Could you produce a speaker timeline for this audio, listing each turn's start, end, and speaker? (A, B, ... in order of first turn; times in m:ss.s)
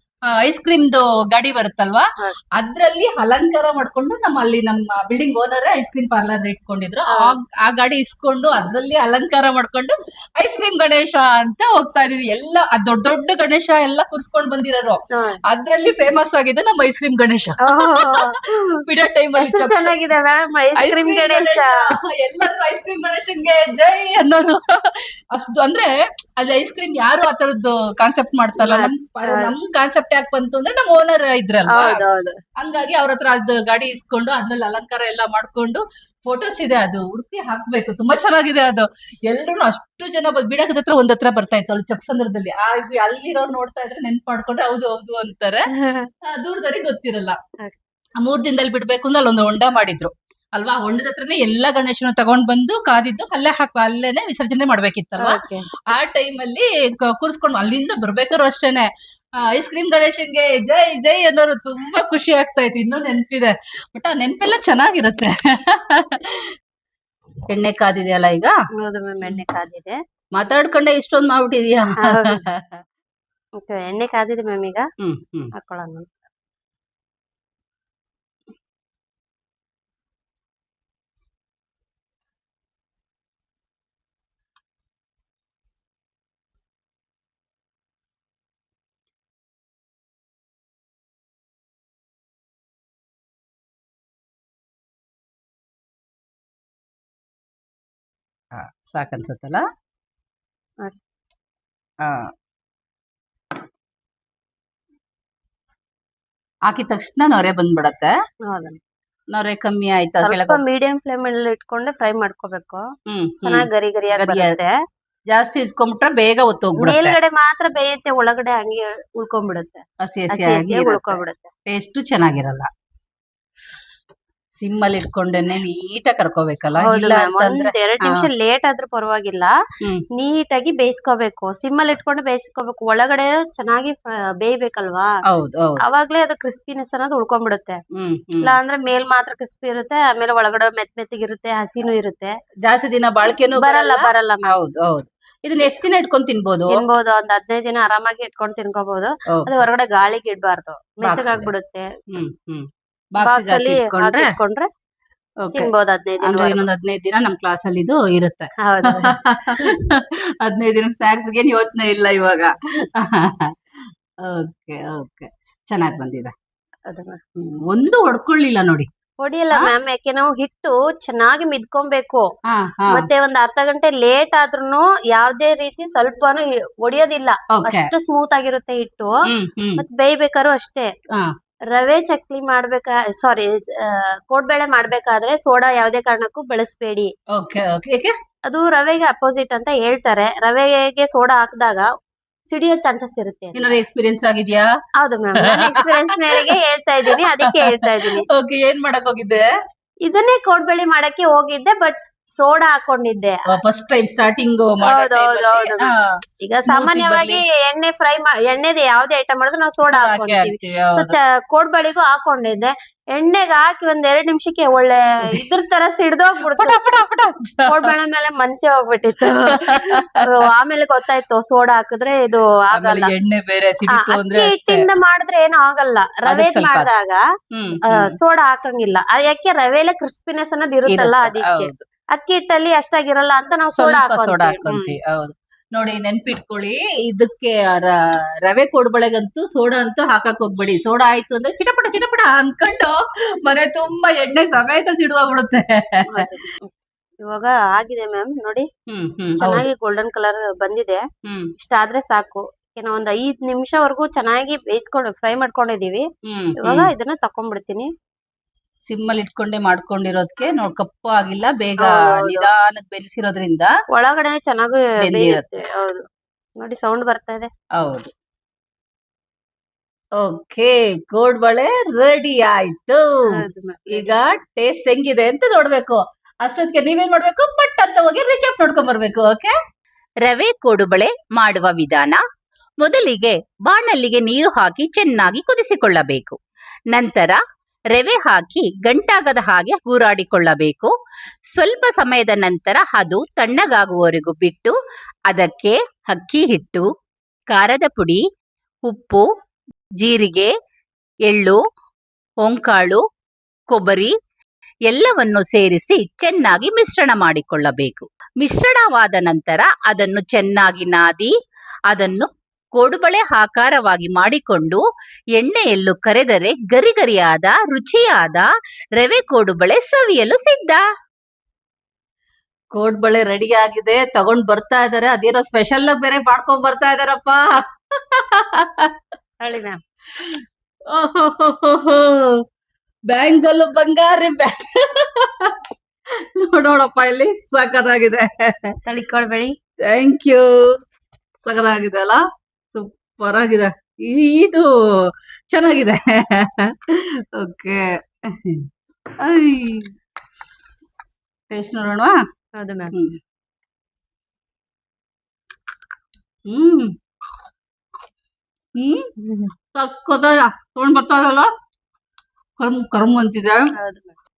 0:00.3-0:19.9 A
0:07.1-0:07.4 B
0:15.1-0:15.4 B
0:17.6-0:18.8 B
0:19.4-0:21.7 B
0:20.8-0:32.0 A
0:28.6-0:29.5 B
0:31.7-0:32.4 B
0:32.6-0:45.7 A
0:45.7-0:46.1 B
0:46.2-0:47.4 A
0:48.2-1:06.5 A
0:55.2-0:55.7 B
1:07.5-1:08.5 A
1:08.8-1:10.0 B
1:10.3-1:12.8 A
1:12.0-1:12.4 B
1:13.6-1:14.8 B
1:15.0-1:15.5 A
1:15.6-1:16.2 B
1:38.5-1:39.6 A
1:42.0-1:42.3 A
1:46.7-1:48.1 A
1:48.5-1:48.8 B
1:49.3-1:50.6 A
1:50.2-1:52.8 B
1:53.1-1:54.6 A
1:53.4-1:54.7 B
1:55.3-1:57.2 A
1:56.8-2:01.5 B
2:00.0-2:02.7 A
2:04.6-2:08.3 A
2:06.8-2:09.5 B
2:10.2-2:15.1 B
2:15.3-2:15.8 A
2:15.8-2:17.8 B
2:17.9-2:18.5 A
2:18.4-2:22.3 B
2:22.6-2:26.8 A
2:23.5-2:24.5 B
2:26.7-2:31.9 B
2:31.0-2:31.5 A
2:32.1-2:34.3 A
2:33.2-2:34.7 B
2:35.4-2:35.7 A
2:35.6-2:36.6 B
2:36.2-2:46.3 A
2:38.6-2:39.7 B
2:46.9-2:47.2 B
2:47.4-2:48.9 A
2:49.2-2:52.3 B
2:52.5-2:53.1 A
2:52.9-2:59.1 B
2:57.5-2:57.9 A
2:59.3-2:59.8 A
2:59.8-3:00.9 B
3:01.7-3:07.1 B
3:07.3-3:08.1 A
3:08.5-3:11.9 B
3:12.5-3:13.8 B
3:13.6-3:14.7 A
3:15.0-3:18.3 B
3:15.4-3:16.5 A
3:17.1-3:19.4 A
3:20.1-3:23.4 B
3:23.5-3:27.4 A
3:24.8-3:36.8 B
3:29.9-3:31.2 A
3:36.5-3:37.9 A
3:37.7-3:43.1 B
3:39.5-3:40.2 A
3:42.7-3:44.9 A
3:43.9-3:47.2 B
3:46.3-3:46.9 A
3:47.5-3:48.2 A
3:47.8-3:54.9 B
3:50.9-3:51.8 A
3:53.7-4:06.2 A
4:06.1-4:06.7 B
4:07.2-4:08.7 B
4:08.9-4:09.7 A
4:09.4-4:11.0 B
4:11.2-4:11.5 A
4:11.6-4:16.0 B
4:16.3-4:16.9 A
4:16.6-4:17.9 B
4:18.8-4:23.7 A
4:21.8-4:22.5 B
4:23.9-4:26.0 B
4:25.0-4:25.5 A
4:26.6-4:27.5 B
4:27.8-4:28.1 A
4:30.2-4:33.0 A
4:33.3-4:34.2 B
4:33.9-4:39.5 A
4:40.2-4:42.2 A
4:42.8-4:46.4 A
4:46.9-4:47.4 A
4:47.9-4:50.9 A
4:51.5-4:54.7 A
4:55.3-4:56.8 A
4:57.5-4:58.2 A
4:58.8-4:59.2 A
5:00.0-5:00.5 A
5:01.3-5:01.6 A
5:02.4-5:03.0 A
5:03.7-5:04.1 A
5:04.9-5:11.3 A
5:11.9-5:14.8 A
5:15.4-5:20.8 A
5:22.7-5:28.9 A
5:29.4-5:29.8 B
5:30.2-5:32.4 A
5:33.1-5:35.6 A
5:36.4-5:38.8 A
5:38.8-5:39.5 B
5:39.8-5:40.6 A
5:41.4-5:42.2 A
5:42.7-5:48.7 A
5:49.2-5:49.9 A
5:51.5-5:52.2 A
5:52.6-5:52.9 B
5:52.9-5:53.2 A
5:56.5-5:56.9 A
5:58.8-5:59.1 A
5:59.2-5:59.5 B
5:59.7-6:01.5 A
6:02.6-6:03.7 A
6:03.8-6:04.2 B